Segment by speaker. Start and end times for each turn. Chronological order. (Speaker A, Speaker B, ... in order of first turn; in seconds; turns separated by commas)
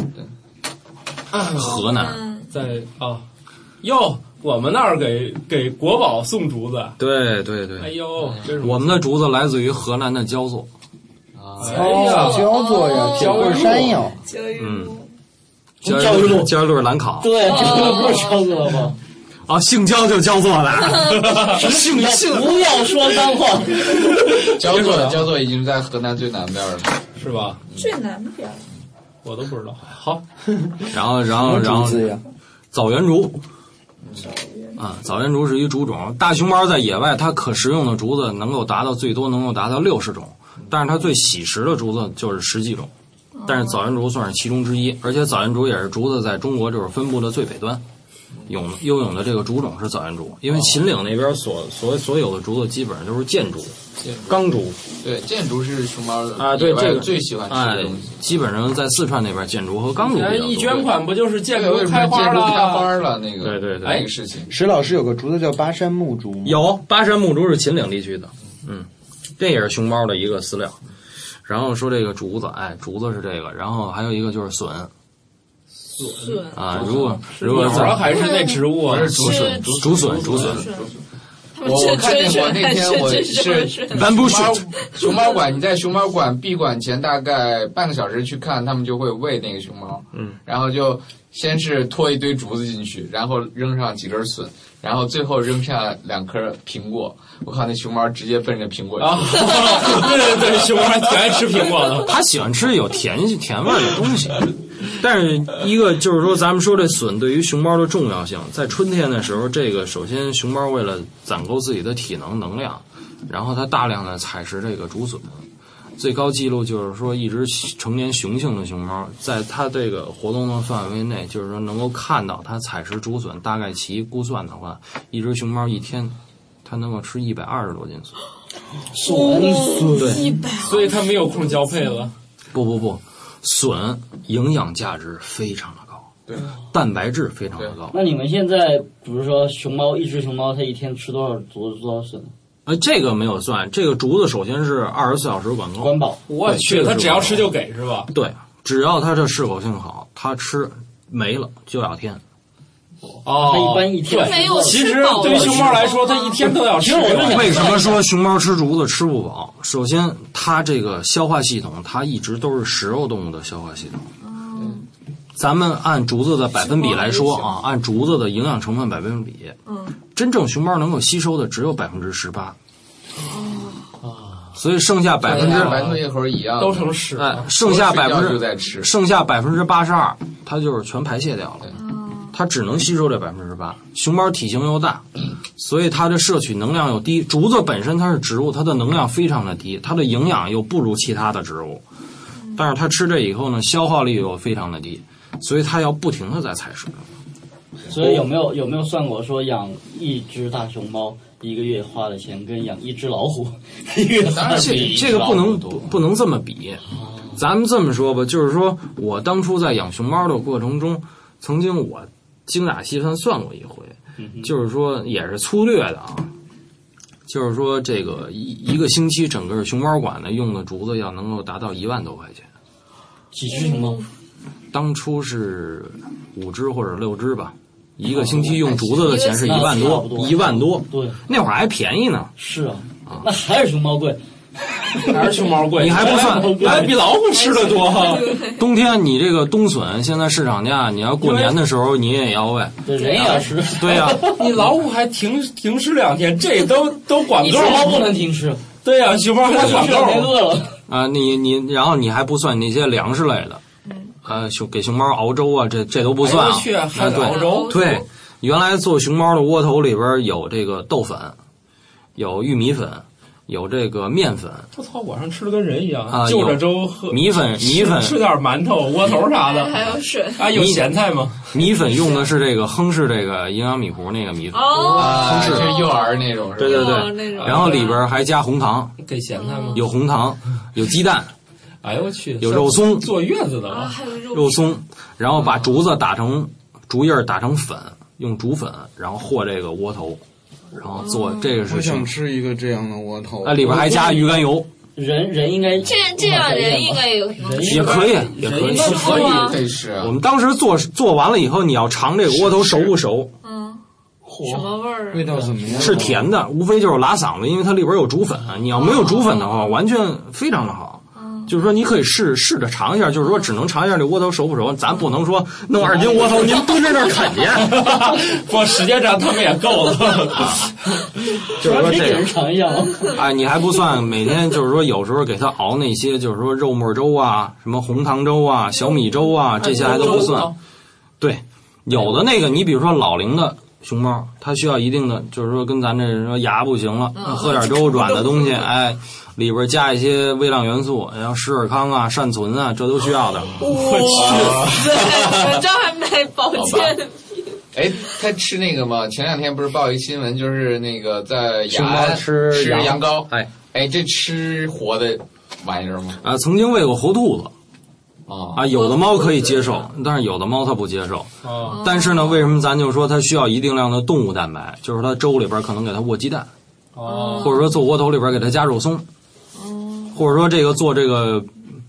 Speaker A: 1.3-1.9, Speaker B: 1.4-2.2, Speaker C: 1.8-2.5, Speaker A: 2.5-3.2, Speaker A: 3.8-7.0, Speaker B: 7.0-8.0, Speaker A: 7.8-9.1, Speaker D: 8.2-8.5, Speaker B: 8.5-10.7, Speaker D: 11.3-12.0, Speaker A: 11.6-14.0, Speaker E: 11.6-14.2, Speaker C: 12.0-15.1, Speaker B: 14.6-14.9, Speaker F: 15.8-16.6, Speaker B: 15.8-17.7, Speaker F: 17.2-18.9, Speaker C: 17.4-18.5, Speaker B: 19.5-22.4, Speaker C: 21.0-21.6, Speaker A: 21.1-21.6, Speaker F: 21.5-24.1, Speaker A: 23.9-25.3, Speaker D: 24.4-27.0, Speaker A: 27.1-27.6, Speaker C: 27.8-28.6, Speaker A: 29.2-30.7, Speaker B: 30.9-32.2, Speaker E: 31.4-32.2, Speaker B: 32.7-33.4, Speaker D: 34.0-34.3, Speaker C: 34.2-34.8, Speaker B: 34.8-42.9, Speaker C: 43.4-43.8, Speaker B: 43.5-47.8, Speaker B: 48.5-54.8, Speaker D: 50.5-50.8, Speaker D: 54.0-54.4, Speaker D: 55.0-58.1, Speaker B: 56.4-60.9, Speaker A: 60.0-63.0, Speaker D: 61.5-64.5, Speaker B: 63.4-64.1, Speaker A: 63.8-64.1, Speaker E: 64.5-66.6, Speaker B: 66.4-68.9, Speaker B: 69.4-70.8, Speaker B: 71.5-74.9, Speaker A: 75.9-79.4, Speaker C: 76.1-76.8, Speaker B: 76.5-78.2, Speaker D: 76.7-81.0, Speaker C: 78.0-80.9, Speaker B: 78.9-80.7, Speaker A: 80.1-80.5, Speaker C: 81.5-84.2, Speaker D: 81.6-100.1, Speaker B: 83.9-84.7, Speaker C: 84.8-85.3, Speaker A: 99.0-102.1, Speaker B: 102.0-115.4, Speaker B: 116.0-128.2, Speaker F: 128.9-130.4, Speaker A: 129.1-129.6, Speaker C: 129.1-132.1, Speaker B: 129.9-130.2, Speaker A: 130.6-132.1, Speaker B: 132.5-136.1, Speaker B: 136.7-138.0, Speaker F: 137.9-142.3, Speaker B: 142.7-147.5, Speaker F: 145.8-146.2, Speaker A: 146.3-148.1, Speaker B: 148.1-152.2, Speaker A: 153.2-157.8, Speaker F: 153.2-157.9, Speaker C: 154.1-156.5, Speaker B: 157.3-164.1, Speaker C: 164.2-164.9, Speaker B: 165.3-172.6, Speaker C: 166.7-167.4, Speaker C: 169.7-170.0, Speaker C: 173.2-173.9, Speaker D: 174.0-174.5, Speaker B: 174.5-175.8, Speaker D: 175.2-178.9, Speaker A: 175.2-176.0, Speaker A: 176.6-177.5, Speaker B: 177.1-181.7, Speaker C: 181.7-182.3, Speaker B: 182.3-191.8, Speaker C: 192.4-192.6, Speaker B: 192.5-197.1, Speaker F: 197.9-205.4, Speaker D: 204.2-205.9, Speaker B: 204.4-216.3, Speaker F: 214.2-214.5, Speaker B: 217.3-222.5, Speaker F: 223.3-224.0, Speaker C: 223.5-224.0, Speaker B: 224.7-232.3, Speaker F: 228.1-231.2, Speaker C: 229.0-230.1, Speaker F: 232.4-236.9, Speaker A: 235.1-238.4, Speaker B: 235.8-237.0, Speaker C: 237.2-238.6, Speaker B: 238.5-244.7, Speaker A: 241.2-241.6, Speaker F: 242.8-244.4, Speaker C: 243.0-243.4, Speaker A: 244.2-248.1, Speaker F: 247.4-248.6, Speaker C: 247.4-248.0, Speaker A: 248.8-250.4, Speaker F: 249.5-250.8, Speaker B: 249.6-249.8, Speaker B: 250.9-253.6, Speaker C: 253.8-254.2, Speaker B: 254.2-261.4, Speaker A: 256.2-257.8, Speaker C: 257.0-258.1, Speaker B: 262.1-264.7, Speaker A: 264.7-271.5, Speaker B: 266.1-268.2, Speaker C: 269.3-270.6, Speaker B: 270.5-270.9, Speaker B: 271.5-275.9, Speaker C: 274.5-278.1, Speaker A: 274.7-275.3, Speaker D: 274.9-277.1, Speaker B: 276.6-278.9, Speaker A: 277.4-277.9, Speaker A: 279.0-279.8, Speaker C: 279.3-279.8, Speaker B: 279.7-281.3, Speaker A: 281.8-283.9, Speaker B: 282.4-283.1, Speaker C: 283.7-284.8, Speaker B: 284.3-290.2, Speaker B: 290.7-292.1, Speaker C: 291.0-291.6, Speaker E: 291.6-294.0, Speaker B: 293.4-294.7, Speaker F: 293.8-294.1, Speaker F: 294.9-298.1, Speaker C: 295.8-298.1, Speaker A: 297.6-299.7, Speaker B: 297.6-299.4, Speaker C: 298.7-299.6, Speaker D: 299.1-300.1, Speaker B: 300.0-303.3, Speaker C: 303.4-303.8, Speaker C: 304.4-305.4, Speaker E: 304.6-306.2, Speaker F: 305.3-306.1, Speaker B: 305.8-317.9, Speaker C: 308.7-309.8, Speaker C: 311.1-311.5, Speaker F: 315.8-316.4, Speaker A: 317.6-320.7, Speaker B: 320.3-320.7, Speaker B: 321.6-322.3, Speaker F: 321.6-323.1, Speaker B: 323.1-330.5, Speaker B: 331.2-343.6, Speaker C: 337.1-338.6, Speaker C: 343.6-347.6, Speaker A: 343.6-344.8, Speaker D: 344.1-345.6, Speaker D: 346.5-346.9, Speaker D: 347.7-356.2, Speaker B: 351.7-353.5, Speaker B: 356.2-357.5, Speaker D: 358.3-358.6, Speaker B: 358.5-366.5, Speaker C: 358.7-359.8, Speaker A: 361.4-361.8, Speaker C: 361.6-362.5, Speaker A: 366.9-367.6, Speaker C: 367.0-367.7, Speaker B: 367.4-369.0, Speaker C: 369.5-370.2, Speaker B: 370.1-371.5